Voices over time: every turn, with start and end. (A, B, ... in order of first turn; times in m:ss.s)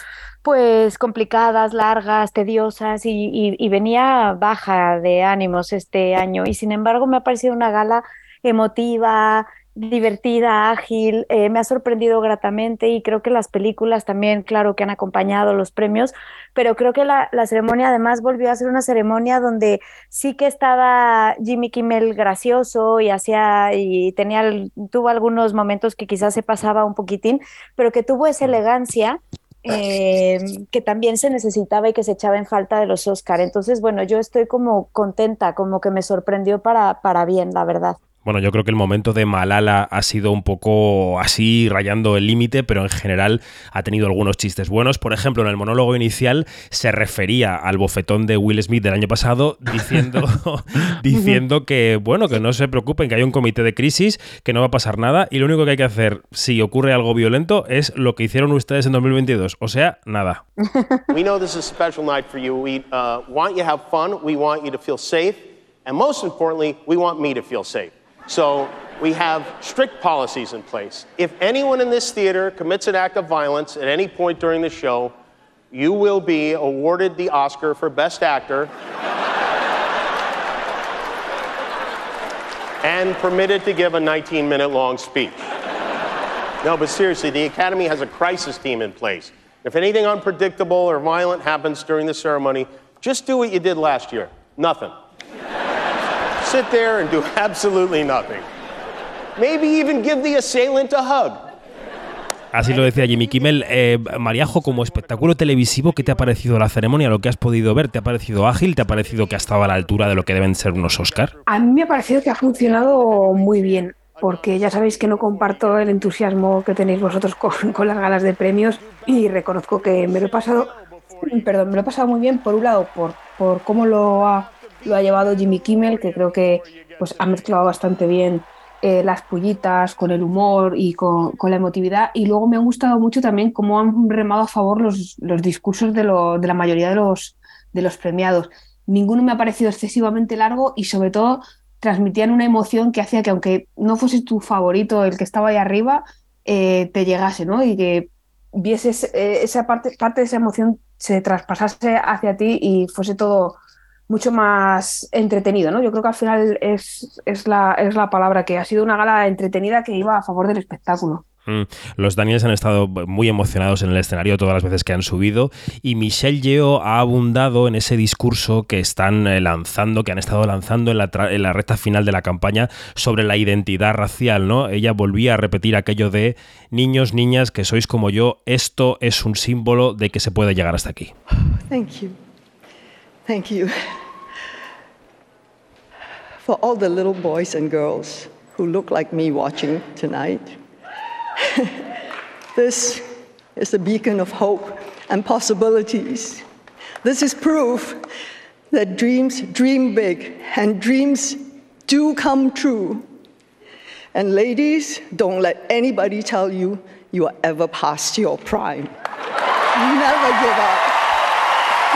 0:00.4-0:38.0 A
0:38.2-1:00.4 B
0:51.1-0:51.4 A
1:00.6-1:01.0 A
1:01.1-1:15.1 C
1:15.7-1:18.7 C
1:22.8-1:25.4 C
1:26.6-1:35.0 C
1:36.4-1:38.5 C
1:39.4-1:41.5 C
1:42.5-1:51.3 B
1:43.5-1:46.8 C
1:47.8-1:56.2 C
1:51.5-2:33.6 D
1:57.6-1:58.2 C
1:58.7-2:01.9 C
2:04.3-2:07.8 C
2:34.1-2:41.2 D
2:41.5-3:01.1 B
3:01.6-3:02.2 E
3:03.3-3:04.0 E
3:06.4-3:10.6 E
3:11.5-3:11.9 E
3:12.6-3:16.5 E
3:17.0-3:18.1 E
3:18.7-3:23.1 E
3:24.1-3:29.0 E
3:29.7-3:31.0 E